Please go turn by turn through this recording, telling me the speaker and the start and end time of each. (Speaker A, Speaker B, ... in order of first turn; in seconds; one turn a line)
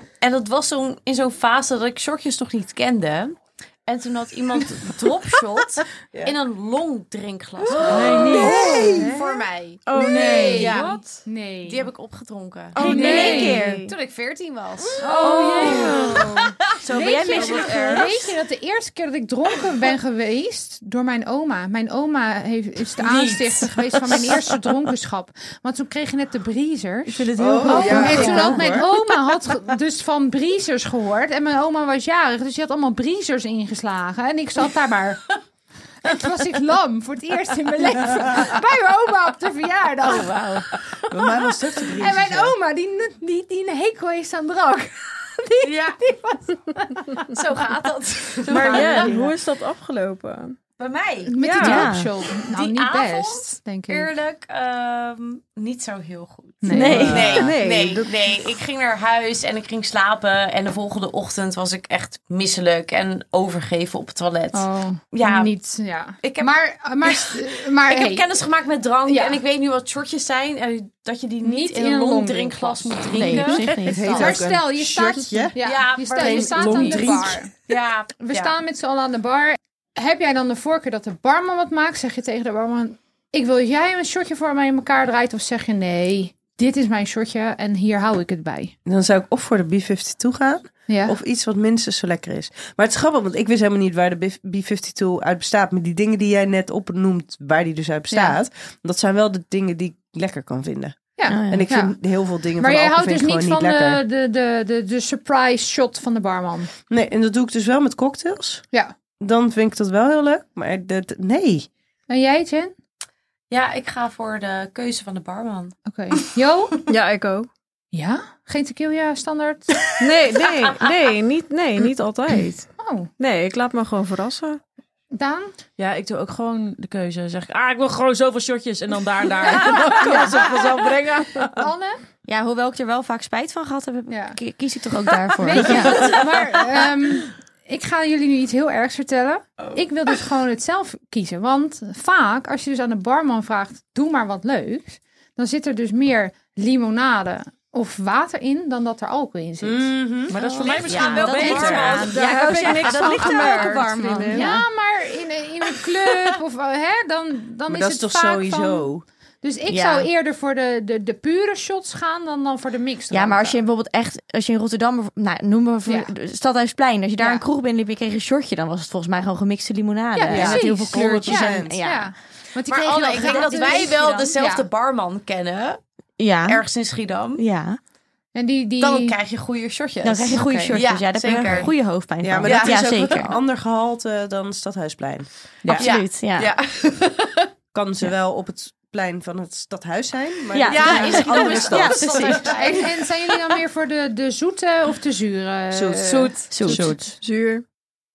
Speaker A: 0.2-9.6
Speaker B: 7.8-9.0
Speaker C: 7.8-11.9
Speaker D: 8.3-9.2
Speaker B: 9.9-10.8
Speaker E: 10.0-11.0
Speaker A: 10.5-11.0
Speaker A: 11.7-18.0
Speaker E: 12.7-13.9
Speaker F: 12.8-13.8
Speaker C: 12.8-13.7
Speaker D: 14.8-16.0
Speaker C: 15.0-35.3
Speaker B: 15.1-15.8
Speaker F: 15.2-16.0
Speaker E: 15.3-15.8
Speaker F: 16.8-18.3
Speaker A: 23.0-24.4
Speaker B: 27.1-28.5
Speaker D: 27.4-28.9
Speaker A: 27.6-28.0
Speaker C: 36.0-40.7
Speaker D: 41.1-42.5
Speaker C: 42.0-47.2
Speaker A: 45.6-46.0
Speaker A: 47.3-49.2
Speaker C: 48.5-49.3
Speaker E: 48.5-50.6
Speaker A: 50.8-51.3
Speaker C: 51.2-54.1
Speaker E: 51.4-52.0
Speaker F: 51.6-52.1
Speaker A: 52.4-65.5
Speaker C: 56.6-57.2
Speaker E: 56.7-58.1
Speaker F: 56.7-57.5
Speaker B: 56.9-57.4
Speaker C: 64.5-68.3
Speaker A: 66.2-66.5
Speaker A: 67.0-73.7
Speaker C: 69.0-69.4
Speaker C: 71.4-77.5
Speaker F: 73.1-74.4
Speaker D: 73.8-77.5
Speaker A: 75.6-78.5
Speaker C: 78.2-88.7
Speaker D: 88.8-104.0
Speaker C: 90.9-91.2
Speaker C: 98.1-98.4
Speaker C: 101.2-101.9
Speaker F: 101.3-101.7
Speaker C: 102.6-106.7
Speaker D: 106.9-108.6
Speaker D: 109.2-111.7
Speaker C: 112.1-112.7
Speaker A: 113.5-115.7
Speaker C: 115.8-116.8
Speaker E: 116.9-117.5
Speaker C: 117.9-119.8
Speaker E: 120.0-124.6
Speaker A: 120.3-120.7
Speaker C: 122.8-123.1
Speaker C: 125.1-125.5
Speaker B: 125.8-131.7
Speaker C: 129.7-130.4
Speaker C: 131.6-132.0
Speaker F: 132.2-136.2
Speaker C: 134.1-134.4
Speaker C: 135.4-149.9
Speaker D: 149.6-150.3
Speaker B: 150.3-153.6
Speaker F: 150.4-154.6
Speaker A: 150.6-151.9
Speaker D: 151.4-152.0
Speaker E: 151.6-154.6
Speaker C: 154.2-158.9
Speaker D: 157.7-159.0
Speaker C: 159.4-163.6
Speaker F: 159.7-160.1
Speaker F: 163.1-172.1
Speaker C: 165.8-166.1
Speaker C: 167.2-167.4
Speaker C: 170.1-174.7
Speaker D: 170.3-171.8
Speaker A: 172.7-175.8
Speaker F: 173.1-174.3
Speaker F: 176.2-176.6
Speaker A: 176.4-177.4
Speaker F: 177.4-177.8
Speaker C: 178.3-179.2
Speaker A: 178.8-181.7
Speaker F: 180.0-183.3
Speaker C: 180.3-180.8
Speaker D: 182.2-185.2
Speaker A: 182.4-183.2
Speaker F: 185.7-186.5
Speaker A: 185.7-187.5
Speaker D: 187.7-192.6
Speaker F: 190.5-192.8
Speaker A: 190.6-193.0
Speaker C: 190.9-191.3
Speaker C: 192.5-196.5
Speaker D: 195.7-196.1
Speaker A: 196.0-196.5
Speaker F: 196.5-197.0
Speaker B: 196.6-197.1
Speaker E: 197.2-197.6